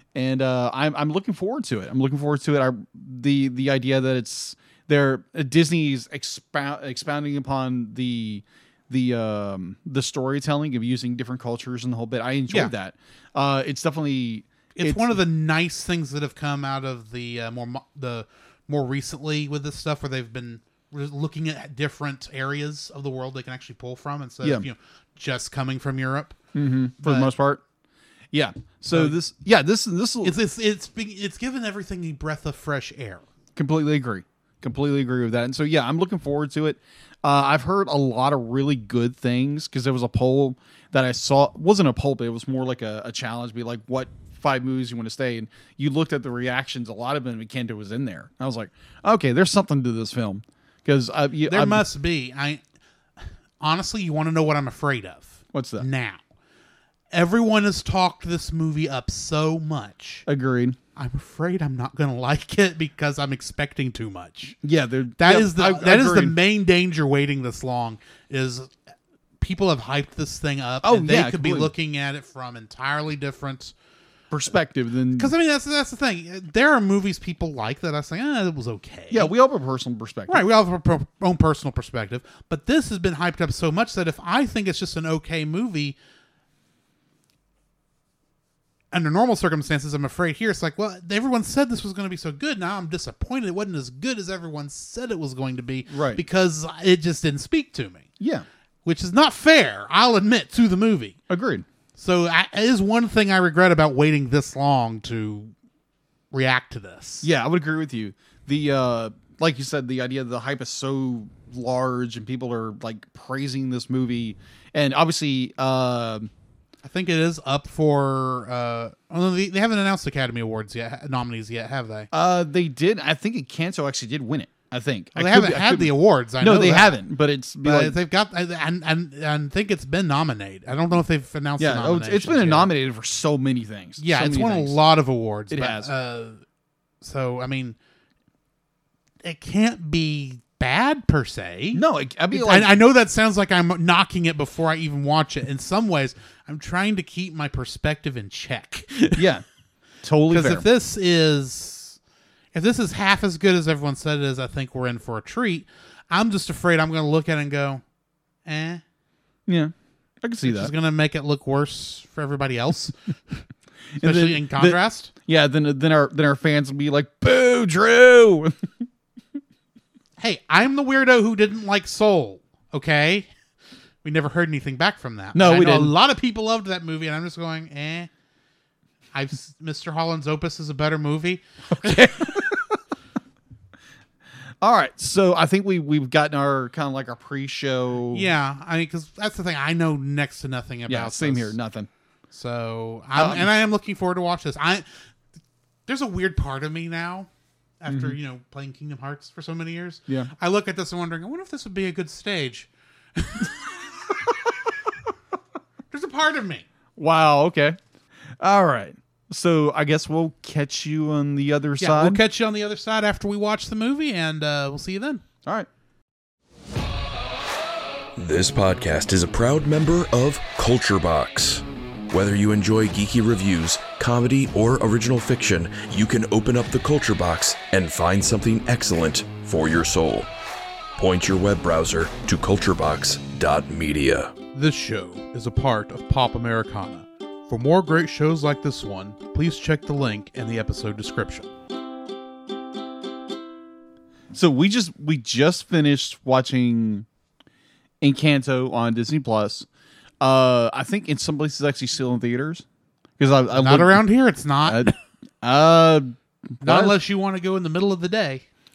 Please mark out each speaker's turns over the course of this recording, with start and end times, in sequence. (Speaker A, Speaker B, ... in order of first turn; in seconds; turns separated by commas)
Speaker A: 0.1-15.1, Speaker B: 14.8-26.4, Speaker A: 24.4-24.7, Speaker A: 26.5-27.6, Speaker B: 27.0-27.3, Speaker A: 28.3-30.4, Speaker B: 28.9-29.2, Speaker B: 30.2-33.2, Speaker A: 33.5-51.8, Speaker B: 51.5-52.6, Speaker B: 53.6-56.2, Speaker A: 55.5-55.9, Speaker B: 57.1-60.2, Speaker A: 60.3-60.8, Speaker B: 61.0-64.6, Speaker A: 64.6-66.3, Speaker B: 65.2-68.7, Speaker B: 69.4-73.7, Speaker A: 70.8-71.7, Speaker A: 74.3-75.3, Speaker B: 75.2-79.3, Speaker A: 79.1-80.4, Speaker B: 80.3-86.0, Speaker B: 88.9-98.1, Speaker A: 95.9-96.2, Speaker A: 98.2-98.4, Speaker B: 98.8-101.2, Speaker A: 101.3-101.7, Speaker B: 102.0-105.5, Speaker B: 106.3-107.3, Speaker A: 107.2-116.3, Speaker B: 116.8-122.1, Speaker A: 122.1-128.0, Speaker B: 125.1-127.0, Speaker B: 127.6-132.7, Speaker A: 131.6-134.8, Speaker B: 134.0-136.4, Speaker A: 135.5-135.9, Speaker B: 137.0-137.8, Speaker B: 139.2-149.2, Speaker A: 141.7-142.7, Speaker A: 149.2-149.4, Speaker A: 150.0-150.6, Speaker B: 150.3-152.0, Speaker B: 152.5-157.8, Speaker B: 158.4-158.8, Speaker A: 159.5-160.7, Speaker B: 160.4-163.4, Speaker A: 163.9-168.7, Speaker B: 164.0-165.1, Speaker B: 170.2-173.3, Speaker B: 174.0-178.1, Speaker A: 175.3-175.9, Speaker B: 179.1-182.5, Speaker A: 181.7-182.7, Speaker A: 184.6-188.3, Speaker B: 188.1-191.6, Speaker A: 190.9-191.9, Speaker B: 192.3-194.8, Speaker A: 193.1-193.5, Speaker B: 195.9-197.3, Speaker B: 197.8-203.7, Speaker A: 197.9-198.2, Speaker B: 205.9-206.7, Speaker A: 206.9-207.8, Speaker A: 208.4-212.2, Speaker B: 211.8-215.2, Speaker C: 218.2-230.3, Speaker C: 231.0-234.3, Speaker B: 234.5-241.5, Speaker A: 244.3-247.1, Speaker A: 248.0-249.7, Speaker A: 250.2-252.6, Speaker A: 253.2-254.0, Speaker B: 253.5-254.9, Speaker A: 254.7-257.0, Speaker B: 256.6-258.4